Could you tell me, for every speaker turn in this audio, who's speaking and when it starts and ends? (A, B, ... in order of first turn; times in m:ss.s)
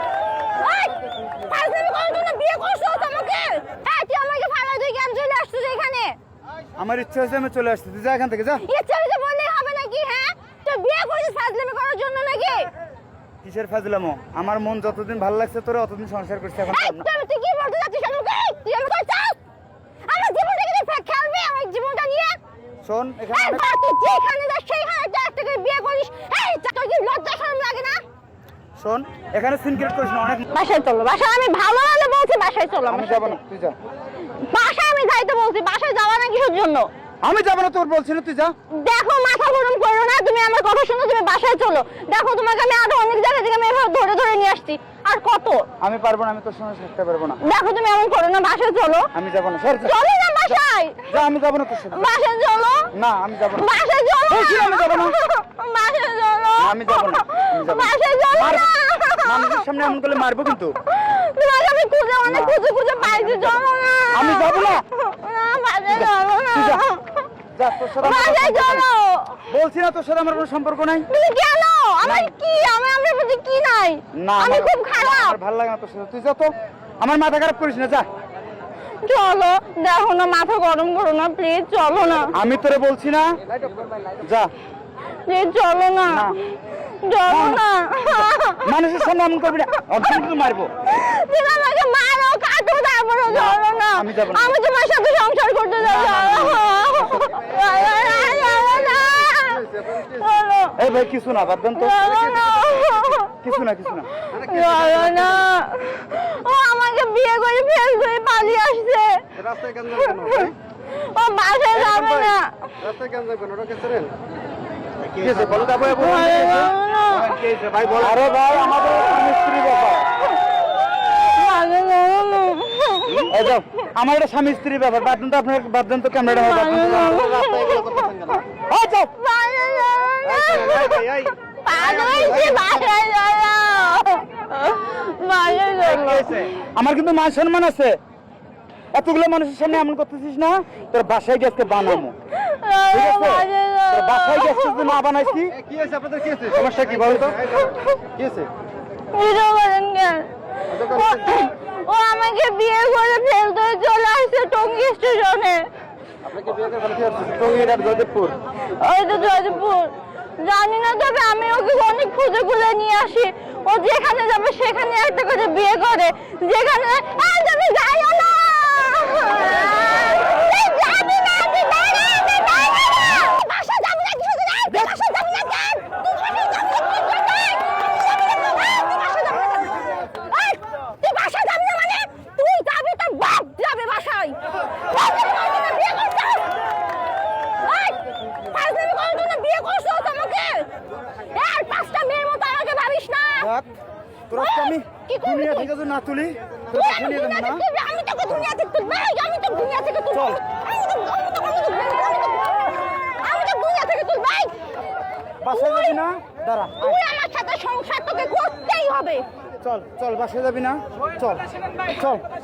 0:00.6-0:06.2 A
0:06.8-0:08.6 B
0:08.6-0:12.7 A
0:13.4-0:17.1 B
0:16.7-0:19.4 A
0:20.0-0:22.4 A
0:22.8-0:23.6 B
0:23.3-0:28.0 A
0:28.8-0:30.5 B
0:30.5-0:33.4 A
0:32.9-0:33.8 B
0:34.3-0:36.9 A
0:37.2-0:38.5 B
0:38.7-0:45.7 A
0:45.8-0:47.4 B
0:47.4-0:49.1 A
0:49.1-0:52.1 B
0:49.8-0:51.2 A
0:51.9-0:52.9 A
0:52.9-0:53.7 B
0:53.5-0:59.9 A
0:54.3-0:55.2 B
0:56.6-0:58.7 B
0:59.2-1:00.8 B
1:00.8-1:07.3 A
1:02.2-1:04.8 B
1:05.9-1:06.8 B
1:07.6-1:08.9 B
1:08.0-1:09.5 A
1:09.5-1:11.1 B
1:11.1-1:15.4 A
1:12.0-1:12.3 B
1:14.2-1:18.1 B
1:19.0-1:22.4 A
1:22.3-1:23.4 B
1:24.2-1:24.5 B
1:25.2-1:28.7 A
1:26.1-1:26.4 B
1:27.3-1:30.7 B
1:30.8-1:40.8 A
1:33.3-1:34.6 B
1:35.8-1:36.7 B
1:37.1-1:40.3 C
1:40.8-1:42.0 B
1:41.8-1:43.4 A
1:42.0-1:43.0 C
1:43.3-1:44.2 B
1:44.3-1:49.4 A
1:44.3-1:45.5 C
1:49.4-1:50.5 C
1:50.0-1:52.8 A
1:51.8-1:54.2 C
1:55.1-1:58.2 C
1:55.2-1:56.6 B
1:55.9-1:57.4 A
1:58.0-2:00.2 B
2:01.0-2:03.3 A
2:03.1-2:07.2 B
2:06.3-2:08.3 A
2:06.7-2:08.4 C
2:08.7-2:09.1 B
2:09.1-2:16.5 A
2:10.2-2:12.9 C
2:16.0-2:18.0 B
2:16.0-2:16.4 C
2:18.9-2:22.2 B
2:22.3-2:25.0 A
2:22.9-2:25.6 B
2:25.6-2:28.5 C
2:26.5-2:27.5 B
2:27.6-2:28.0 A
2:29.1-2:35.7 A
2:30.7-2:31.4 C
2:36.2-2:38.3 C
2:37.6-2:38.3 B
2:38.7-3:06.6 A
3:07.6-3:13.5 A
3:13.4-3:13.7 B
3:14.3-3:17.7 B
3:14.3-3:15.7 A
3:16.7-3:24.6 A
3:20.1-3:20.4 B
3:25.4-3:27.0 B
3:25.5-3:26.0 A
3:26.8-3:29.3 A
3:29.6-3:32.2 B